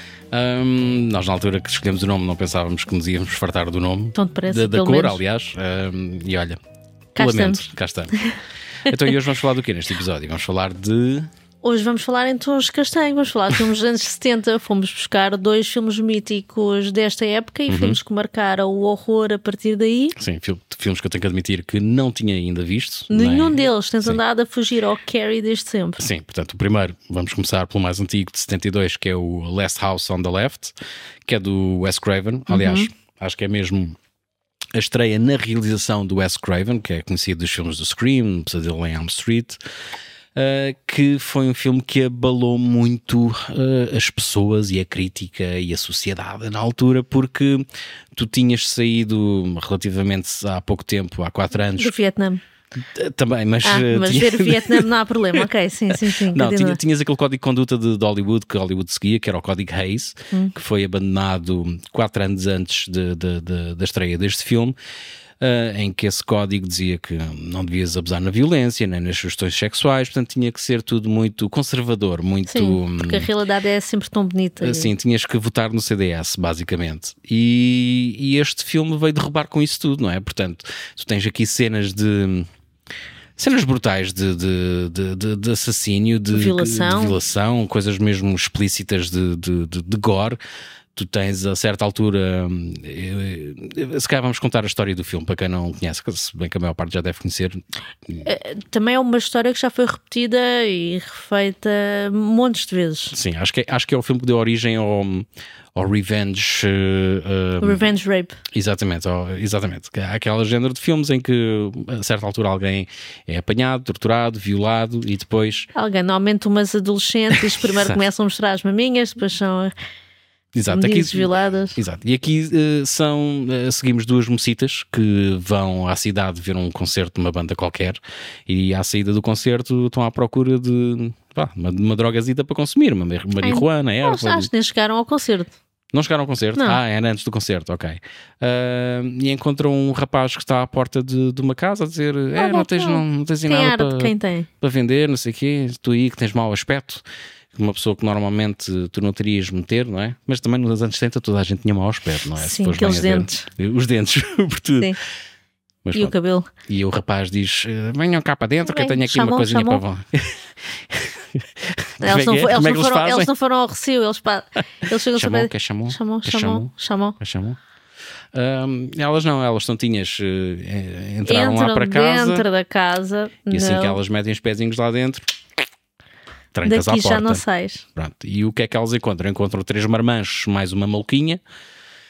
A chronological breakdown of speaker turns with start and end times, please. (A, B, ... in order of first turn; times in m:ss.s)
0:00.3-0:06.6 A
0:04.1-0:05.2 B
0:07.2-0:07.7 B
0:07.2-0:08.1 A
0:08.8-0:11.3 A
0:11.6-0:20.1 B
0:17.7-0:18.0 A
0:20.2-0:24.2 A
0:23.1-0:26.0 B
0:26.0-0:34.0 A
0:32.5-0:32.9 B
0:34.7-0:39.6 A
0:40.3-0:51.9 A
0:51.8-0:52.4 B
0:52.8-1:04.8 A
0:53.6-0:56.8 B
1:05.4-1:13.3 A
1:12.5-1:14.9 B
1:14.6-1:22.5 A
1:23.4-1:30.4 A
1:26.3-1:27.2 B
1:30.9-1:38.2 A
1:38.2-1:43.1 B
1:43.1-1:47.8 A
1:47.6-1:48.4 B
1:48.5-1:55.7 A
1:55.7-1:59.7 B
1:57.5-1:58.0 A
2:00.5-2:14.5 A
2:00.7-2:01.8 B
2:13.4-2:15.5 B
2:15.9-2:35.0 A
2:22.3-2:24.5 B
2:32.4-2:33.5 B
2:35.8-2:36.1 A
2:35.9-2:36.5 B
2:36.7-2:43.3 A
2:38.6-2:39.8 B
2:42.0-2:47.2 B
2:45.1-2:47.6 A
2:48.3-2:52.4 A
2:51.2-2:54.0 B
2:53.5-2:55.2 A
2:56.5-2:57.4 A
2:56.6-2:57.8 B
2:57.9-3:01.4 A